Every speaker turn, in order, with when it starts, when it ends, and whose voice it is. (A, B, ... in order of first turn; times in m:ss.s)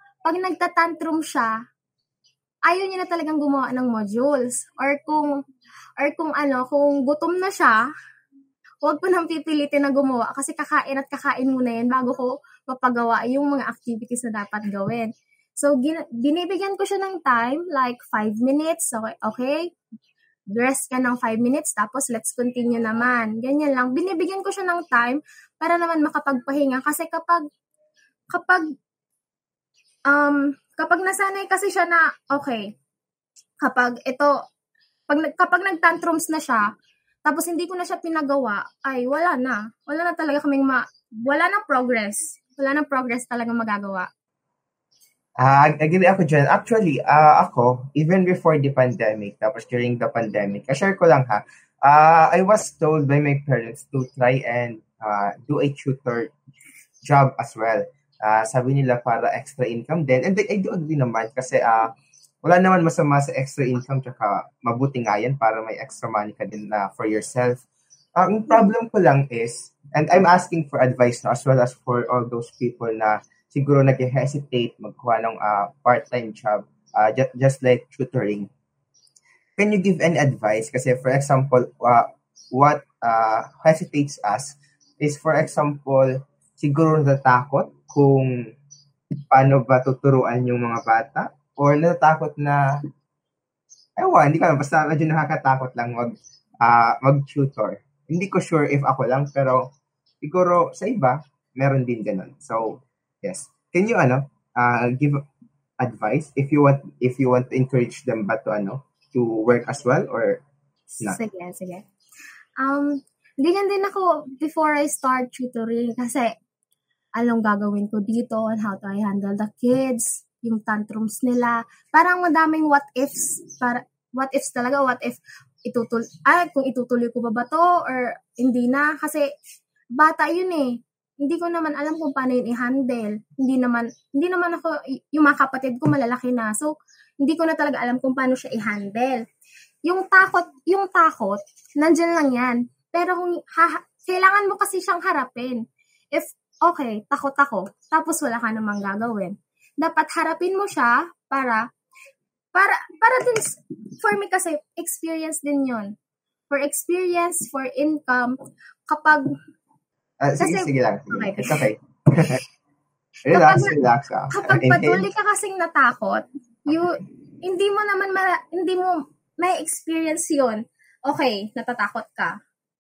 0:00.2-0:01.6 A
0:02.7-0:05.4 A
0:06.0-0:07.8 A
0:08.8-0:19.7 A
0:20.5-0:27.5 A
0:28.3-0:28.7 A
0:30.1-0:32.7 A
0:33.6-0:34.3 A
0:35.1-0:36.6 A
0:37.3-0:44.1 A
0:45.4-0:56.3 B
0:57.0-1:07.6 B
1:08.2-1:18.5 B
1:19.6-1:28.5 B
1:29.3-1:32.6 B
1:34.0-1:39.7 B
1:40.2-1:45.2 B
1:45.8-1:50.4 B
1:51.0-1:51.8 A
1:52.6-1:56.3 A
1:57.2-2:09.3 A
2:10.0-2:19.2 A
2:19.8-2:25.6 A
2:26.1-2:31.6 A
2:32.5-2:35.9 A
2:36.5-2:38.4 A
2:38.9-2:39.3 A
2:40.2-2:42.4 B
2:40.4-2:41.6 A
2:43.3-2:43.7 A
2:43.3-2:45.1 B
2:44.3-2:52.4 A